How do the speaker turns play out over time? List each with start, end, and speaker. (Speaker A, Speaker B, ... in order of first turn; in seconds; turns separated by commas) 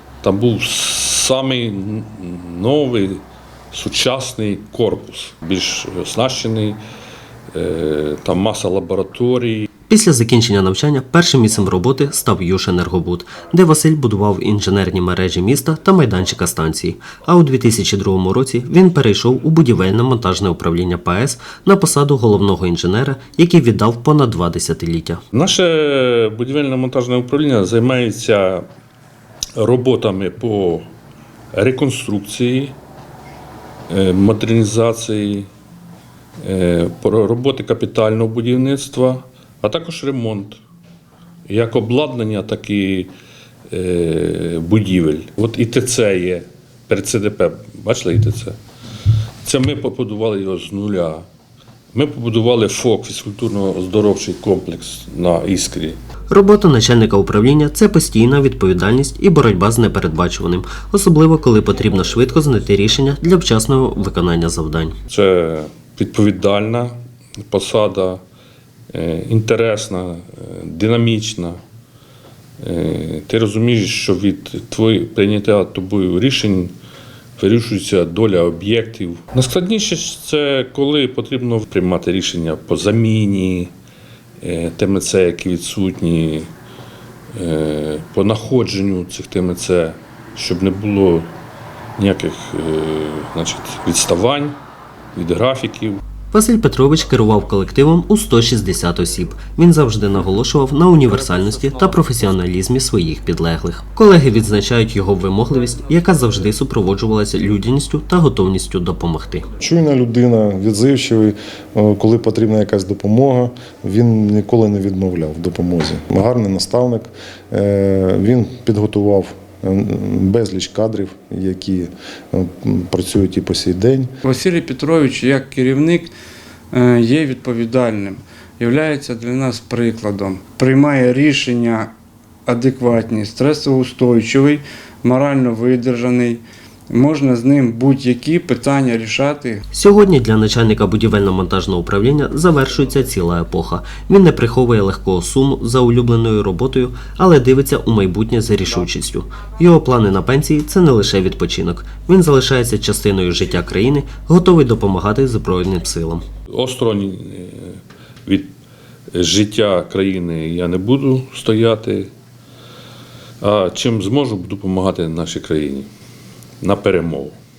Speaker A: 0.2-6.8, Speaker A: 7.5-9.7, Speaker B: 9.9-25.2, Speaker A: 25.3-28.6, Speaker A: 29.6-30.9, Speaker A: 31.5-32.8, Speaker A: 33.9-35.5, Speaker A: 36.4-40.6, Speaker A: 41.5-43.1, Speaker A: 43.7-48.6, Speaker A: 49.4-51.2, Speaker A: 51.9-56.0, Speaker B: 56.3-65.0, Speaker A: 65.1-66.9, Speaker A: 67.5-68.2, Speaker A: 68.9-71.6, Speaker A: 72.6-76.7, Speaker A: 77.4-83.7, Speaker A: 84.4-86.5, Speaker A: 87.3-91.3, Speaker A: 92.0-94.6, Speaker A: 95.1-96.0, Speaker B: 96.3-109.5, Speaker C: 109.6-124.1, Speaker D: 124.2-126.1, Speaker D: 126.7-131.9, Speaker D: 132.5-139.6, Speaker B: 139.7-156.2, Speaker A: 156.5-158.5, Speaker A: 159.1-162.1, Speaker A: 163.4-165.9, Speaker A: 166.6-167.4